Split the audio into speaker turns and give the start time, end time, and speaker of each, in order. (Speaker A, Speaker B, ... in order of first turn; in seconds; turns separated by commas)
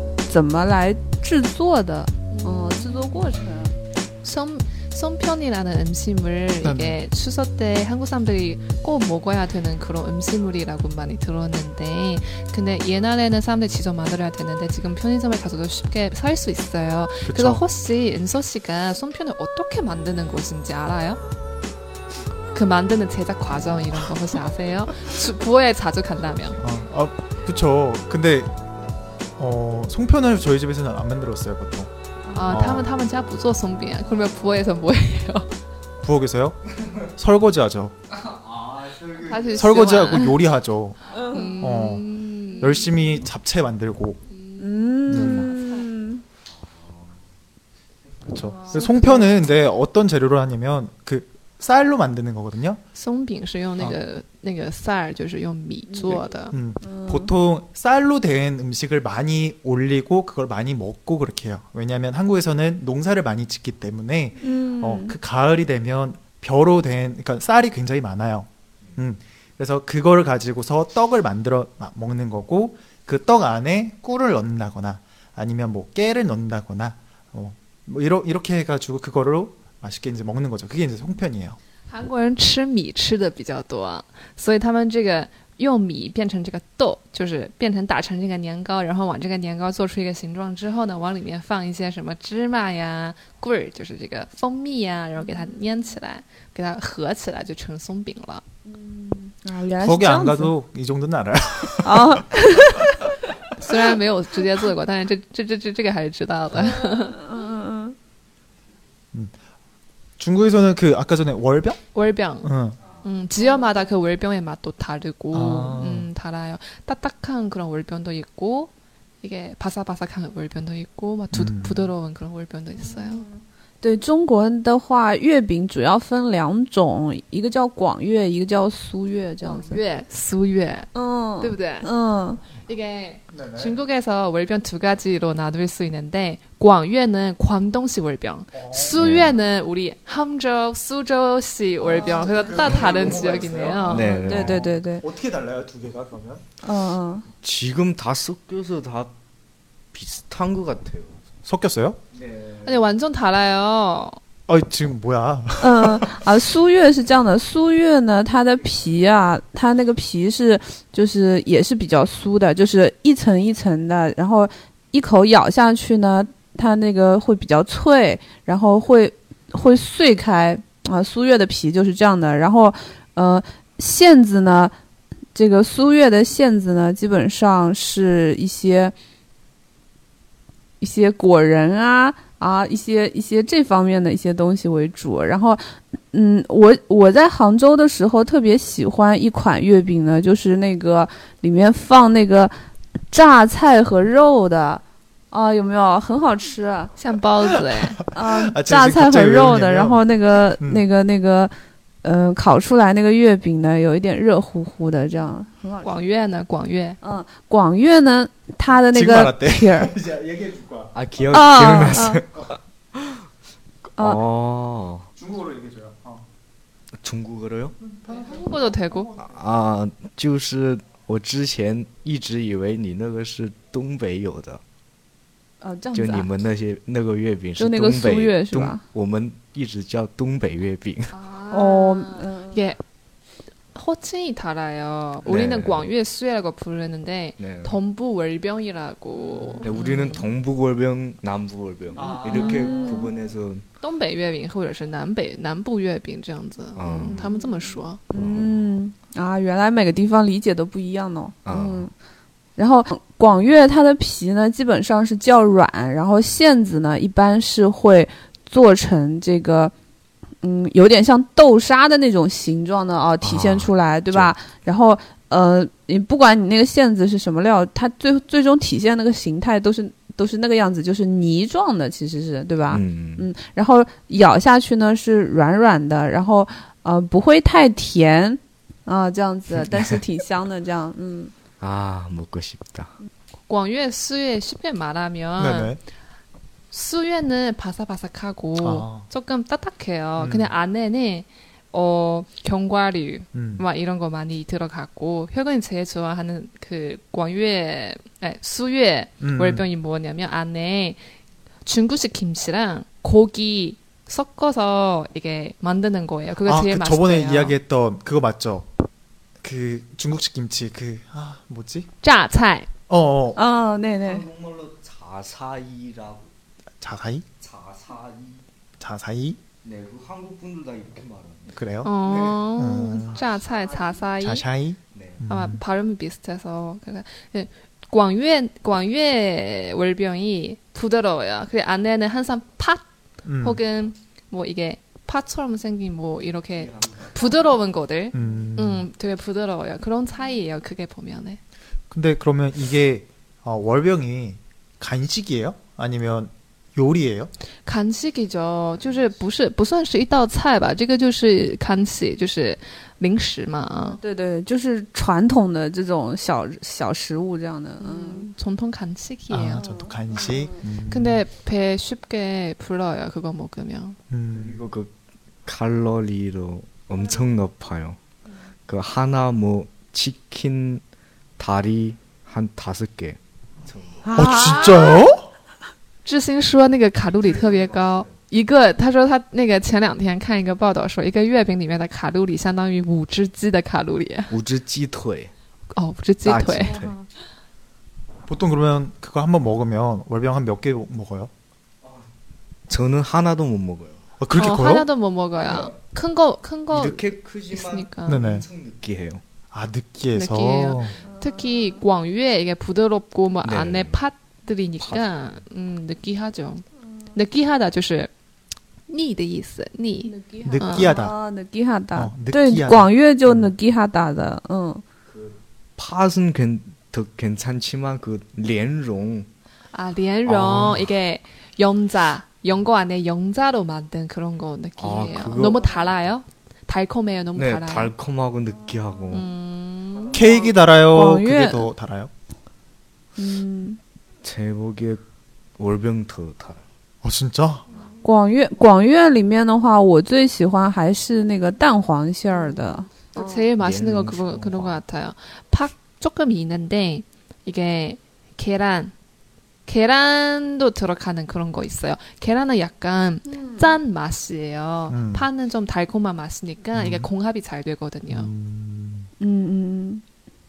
Speaker A: 0.3-3.8, Speaker B: 2.3-3.2, Speaker B: 4.2-21.2, Speaker C: 6.6-7.0, Speaker C: 17.3-17.6, Speaker B: 22.5-26.6, Speaker C: 26.6-28.6, Speaker C: 29.4-31.9, Speaker A: 32.3-32.6, Speaker B: 32.3-35.5, Speaker C: 32.5-32.9, Speaker C: 36.0-37.9, Speaker D: 38.1-39.8, Speaker B: 39.2-40.5, Speaker C: 39.5-41.0, Speaker A: 41.1-41.6, Speaker B: 41.3-43.0, Speaker C: 41.6-44.2, Speaker B: 44.3-45.9, Speaker A: 44.6-46.2, Speaker C: 45.1-45.5, Speaker D: 46.5-47.2, Speaker C: 48.3-52.8, Speaker B: 48.4-49.3, Speaker B: 53.0-56.5, Speaker A: 55.9-56.2, Speaker C: 56.5-81.6, Speaker A: 56.8-57.3, Speaker A: 64.4-65.2, Speaker B: 81.9-98.4, Speaker A: 98.7-100.5, Speaker C: 99.8-102.2, Speaker A: 101.8-102.9, Speaker B: 103.6-107.2, Speaker A: 106.6-108.0, Speaker C: 110.2-111.8, Speaker B: 111.9-112.5, Speaker C: 112.4-112.8, Speaker B: 113.0-123.3, Speaker C: 115.3-116.1, Speaker C: 121.3-121.9, Speaker A: 122.8-129.8, Speaker B: 129.4-131.9, Speaker A: 130.9-132.4, Speaker B: 132.6-144.1, Speaker C: 133.3-133.8, Speaker C: 138.5-139.2, Speaker D: 138.9-139.3, Speaker C: 141.8-146.5, Speaker D: 142.7-144.7, Speaker A: 144.0-145.1, Speaker A: 146.6-147.3, Speaker D: 147.4-149.1, Speaker D: 149.9-151.2, Speaker C: 151.4-152.0, Speaker D: 152.1-152.9, Speaker B: 152.6-154.2, Speaker C: 154.5-156.2, Speaker A: 155.6-174.7, Speaker A: 175.3-178.9, Speaker A: 180.8-192.5, Speaker A: 193.1-196.9, Speaker B: 197.0-198.0, Speaker C: 198.1-200.0, Speaker A: 198.1-205.9, Speaker C: 200.6-200.8, Speaker B: 205.8-207.0, Speaker A: 207.0-209.9, Speaker C: 208.9-212.5, Speaker D: 210.9-213.2, Speaker A: 211.3-212.2, Speaker D: 214.0-215.1, Speaker C: 215.2-216.3, Speaker D: 217.0-217.8, Speaker C: 217.9-219.3, Speaker B: 218.1-219.1, Speaker D: 219.2-224.6, Speaker A: 225.6-226.3, Speaker D: 225.9-231.1, Speaker A: 227.6-228.8, Speaker B: 231.1-232.8, Speaker A: 231.5-232.7, Speaker B: 233.7-240.3, Speaker D: 235.3-235.9, Speaker D: 237.4-237.8, Speaker C: 239.4-239.7, Speaker D: 239.6-243.7, Speaker C: 242.0-242.6, Speaker B: 242.3-243.0, Speaker A: 242.4-243.1, Speaker B: 243.8-248.0, Speaker D: 246.8-247.3, Speaker A: 247.2-251.9, Speaker D: 248.2-248.6, Speaker D: 251.4-251.9, Speaker A: 252.6-259.7, Speaker A: 260.4-281.3, Speaker D: 263.2-264.3, Speaker D: 272.7-273.3, Speaker D: 279.6-279.9, Speaker D: 281.6-283.0, Speaker B: 283.5-285.8, Speaker C: 285.4-285.8, Speaker B: 286.7-301.0, Speaker C: 288.6-289.1, Speaker C: 290.2-290.5, Speaker C: 293.3-293.6, Speaker C: 299.2-299.7, Speaker B: 301.6-307.6, Speaker C: 306.4-308.7, Speaker C: 309.4-311.9, Speaker B: 312.0-312.7, Speaker C: 312.9-313.4, Speaker A: 313.4-314.2, Speaker D: 314.0-316.3, Speaker C: 316.8-317.2, Speaker D: 317.4-318.5, Speaker C: 318.8-319.4, Speaker D: 319.6-322.5, Speaker C: 321.5-321.9, Speaker B: 321.8-324.5, Speaker C: 322.6-323.2, Speaker D: 323.1-324.0, Speaker C: 324.2-325.6, Speaker D: 324.9-325.2, Speaker B: 325.3-332.8, Speaker C: 333.2-333.6, Speaker B: 333.4-341.4, Speaker D: 336.6-337.6, Speaker C: 338.1-338.9, Speaker C: 341.9-347.3, Speaker B: 347.6-354.0, Speaker A: 353.8-358.3, Speaker B: 357.8-359.6, Speaker C: 359.3-361.2, Speaker A: 359.6-360.6, Speaker B: 360.9-364.0, Speaker C: 364.1-364.6, Speaker D: 364.3-364.9, Speaker D: 365.5-368.0, Speaker D: 368.7-370.8, Speaker D: 371.4-374.3, Speaker A: 374.1-375.0, Speaker C: 374.1-375.3, Speaker B: 376.1-384.3, Speaker D: 377.2-378.2, Speaker D: 384.3-385.3, Speaker B: 385.7-386.8, Speaker D: 386.2-386.9, Speaker A: 386.6-387.0, Speaker C: 388.3-391.3, Speaker D: 391.8-392.1, Speaker D: 392.7-394.0, Speaker C: 394.2-394.9, Speaker B: 394.4-398.3, Speaker D: 395.4-395.8, Speaker D: 396.7-399.2, Speaker C: 398.1-398.5, Speaker C: 399.5-401.0, Speaker B: 400.1-408.1, Speaker D: 403.4-404.0, Speaker D: 404.8-405.2, Speaker B: 408.9-410.9, Speaker A: 410.0-414.8, Speaker C: 410.4-411.1, Speaker C: 411.9-413.5, Speaker D: 415.1-419.3, Speaker B: 419.7-427.9, Speaker D: 420.2-420.9, Speaker C: 420.5-420.8, Speaker D: 424.8-425.8, Speaker D: 427.4-429.3, Speaker B: 429.1-430.2, Speaker C: 430.1-432.1, Speaker D: 430.2-430.5, Speaker A: 430.9-431.7, Speaker A: 433.2-433.8, Speaker D: 434.2-435.0, Speaker D: 435.6-436.6, Speaker C: 437.0-437.6, Speaker A: 438.0-443.4, Speaker B: 442.3-448.9, Speaker D: 443.6-444.8, Speaker B: 449.7-458.3, Speaker A: 453.3-453.8, Speaker C: 454.9-455.3, Speaker C: 456.8-457.1, Speaker C: 458.1-459.1, Speaker A: 459.2-460.0